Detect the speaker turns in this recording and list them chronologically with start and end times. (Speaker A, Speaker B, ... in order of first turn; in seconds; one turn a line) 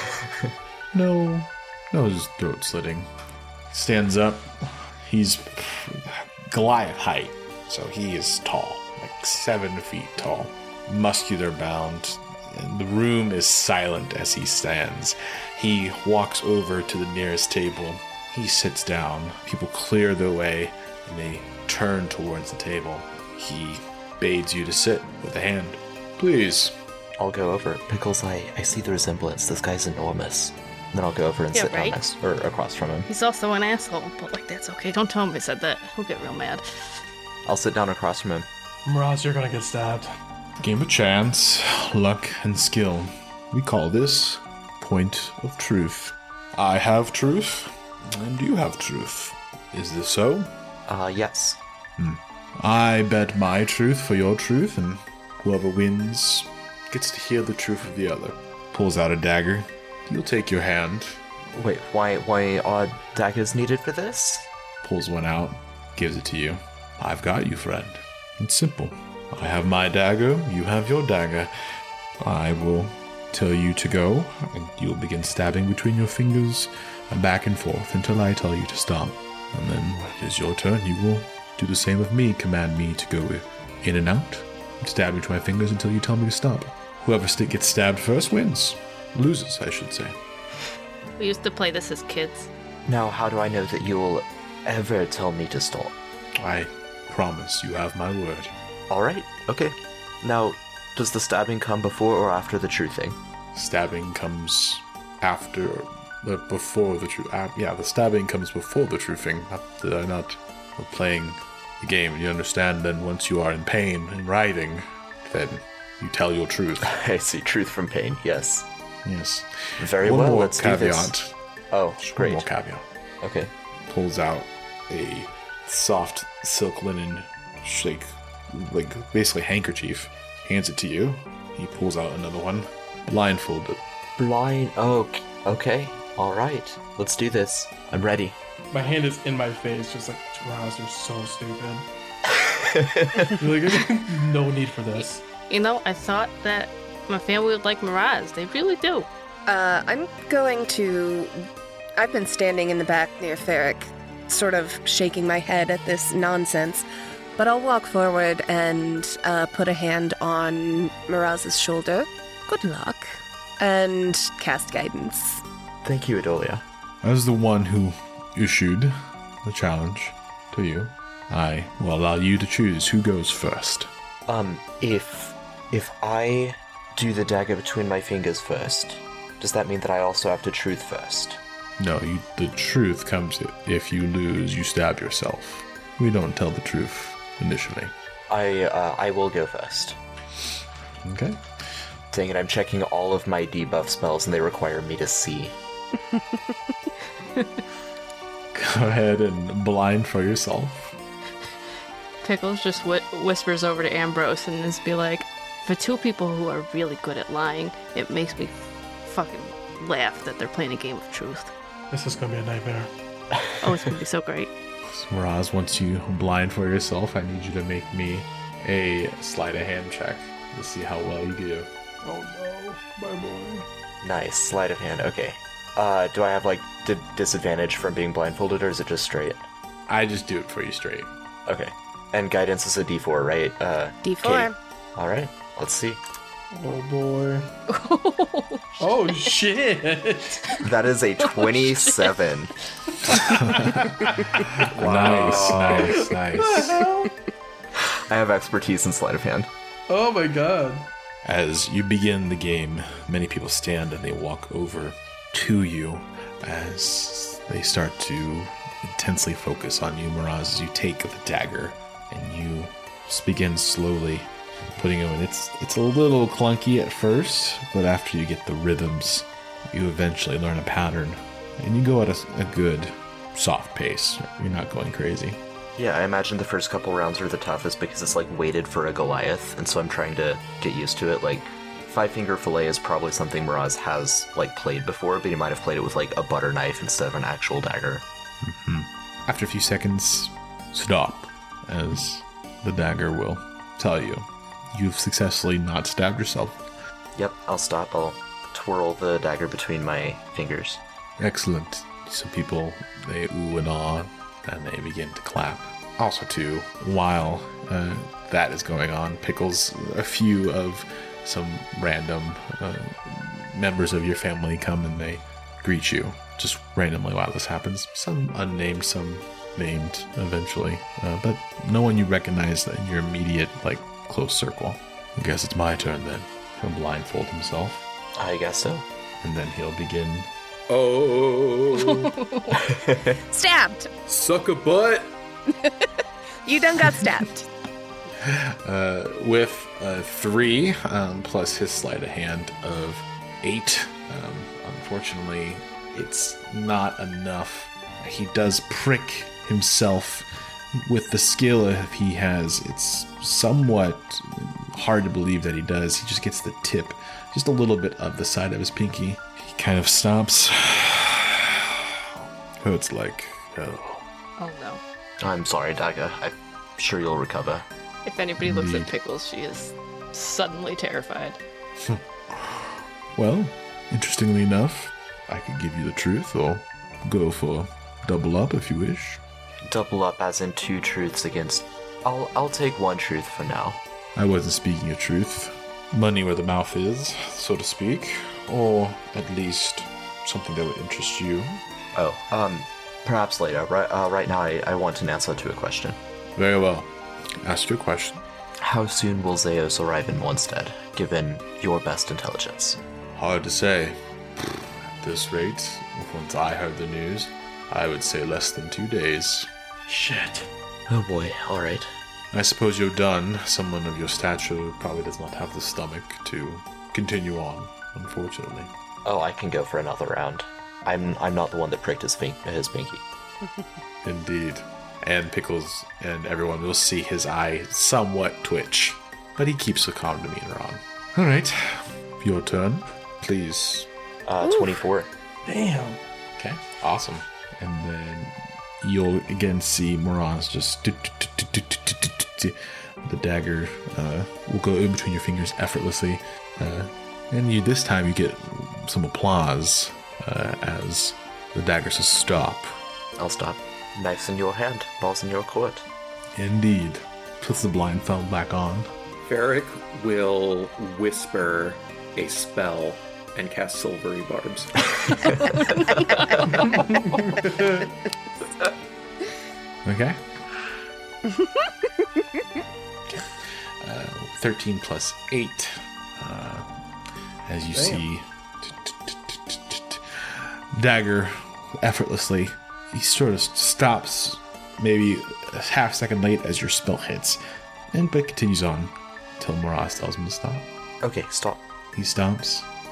Speaker A: 0.9-3.1
Speaker A: 3.7-26.8
Speaker B: 27.2-33.1
Speaker C: 31.5-32.0
Speaker C: 33.1-36.6
Speaker B: 37.5-38.5
Speaker D: 38.9-40.1
Speaker A: 40.6-50.5
Speaker B: 50.9-51.6
Speaker A: 52.0-61.2
Speaker B: 61.5-64.5
Speaker A: 64.8-71.5
Speaker A: 72.2-90.2
Speaker C: 91.2-92.5
Speaker B: 92.8-95.9
Speaker A: 96.4-98.5
Speaker B: 98.9-103.2
Speaker A: 103.5-116.9
Speaker B: 116.8-118.7
Speaker A: 119.0-121.3
Speaker B: 119.8-121.1
Speaker B: 121.7-122.5
Speaker A: 122.0-122.8
Speaker B: 123.2-123.5
Speaker A: 123.9-133.8
Speaker B: 134.2-138.4
Speaker D: 138.7-141.9
Speaker B: 142.4-143.4
Speaker D: 143.4-145.2
Speaker C: 145.0-149.1
Speaker E: 149.5-156.8
Speaker E: 157.4-165.4
Speaker B: 165.8-166.6
Speaker A: 167.0-173.9
Speaker B: 174.3-181.4
Speaker A: 181.8-187.9
Speaker B: 188.3-190.0
Speaker A: 191.0-191.4
Speaker B: 192.1-195.6
Speaker C: 197.3-197.6
Speaker A: 198.5-200.9
Speaker C: 202.2-211.5
Speaker D: 211.9-212.9
Speaker C: 213.6-214.5
Speaker A: 214.8-221.7
Speaker D: 222.0-223.7
Speaker B: 224.0-229.4
Speaker A: 229.9-231.1
Speaker B: 231.4-236.0
Speaker E: 234.0-234.5
Speaker D: 236.5-237.5
Speaker C: 237.7-239.3
Speaker D: 238.8-240.4
Speaker B: 240.6-242.5
Speaker C: 241.2-242.1
Speaker A: 243.2-246.8
Speaker F: 244.7-246.0
Speaker B: 244.9-245.7
Speaker D: 246.0-247.1
Speaker B: 247.9-249.5
Speaker D: 249.9-250.9
Speaker A: 251.2-275.4
Speaker B: 275.8-288.0
Speaker A: 288.4-296.6
Speaker B: 297.1-300.8
Speaker A: 301.2-327.9
Speaker B: 328.2-328.8
Speaker A: 329.2-330.3
Speaker F: 330.7-332.1
Speaker C: 331.7-332.6
Speaker B: 332.6-333.2
Speaker E: 333.2-333.9
Speaker F: 334.1-335.1
Speaker E: 336.4-337.5
Speaker A: 338.2-350.3
Speaker A: 350.8-361.9
Speaker A: 362.6-364.0
Speaker C: 364.4-364.8
Speaker B: 365.2-367.6
Speaker C: 368.0-371.4
Speaker A: 368.4-368.9
Speaker A: 371.8-379.2
Speaker B: 379.6-383.8
Speaker A: 384.1-391.6
Speaker B: 391.9-396.0
Speaker A: 396.4-398.2
Speaker B: 398.6-402.8
Speaker A: 403.1-409.5
Speaker D: 409.9-410.5
Speaker B: 410.9-411.9
Speaker A: 412.3-418.7
Speaker B: 419.0-423.0
Speaker E: 423.4-423.7
Speaker A: 424.0-433.9
Speaker B: 434.2-435.1
Speaker D: 435.4-436.0
Speaker A: 436.4-452.7
Speaker B: 453.2-455.8
Speaker A: 456.4-458.9
Speaker F: 459.2-465.3
Speaker C: 465.3-466.8
Speaker D: 466.8-467.9
Speaker A: 469.8-470.2
Speaker E: 471.3-471.7
Speaker A: 473.8-476.7
Speaker A: 477.4-487.4
Speaker D: 477.7-478.0
Speaker A: 487.9-490.7
Speaker B: 491.0-491.6
Speaker A: 491.9-492.7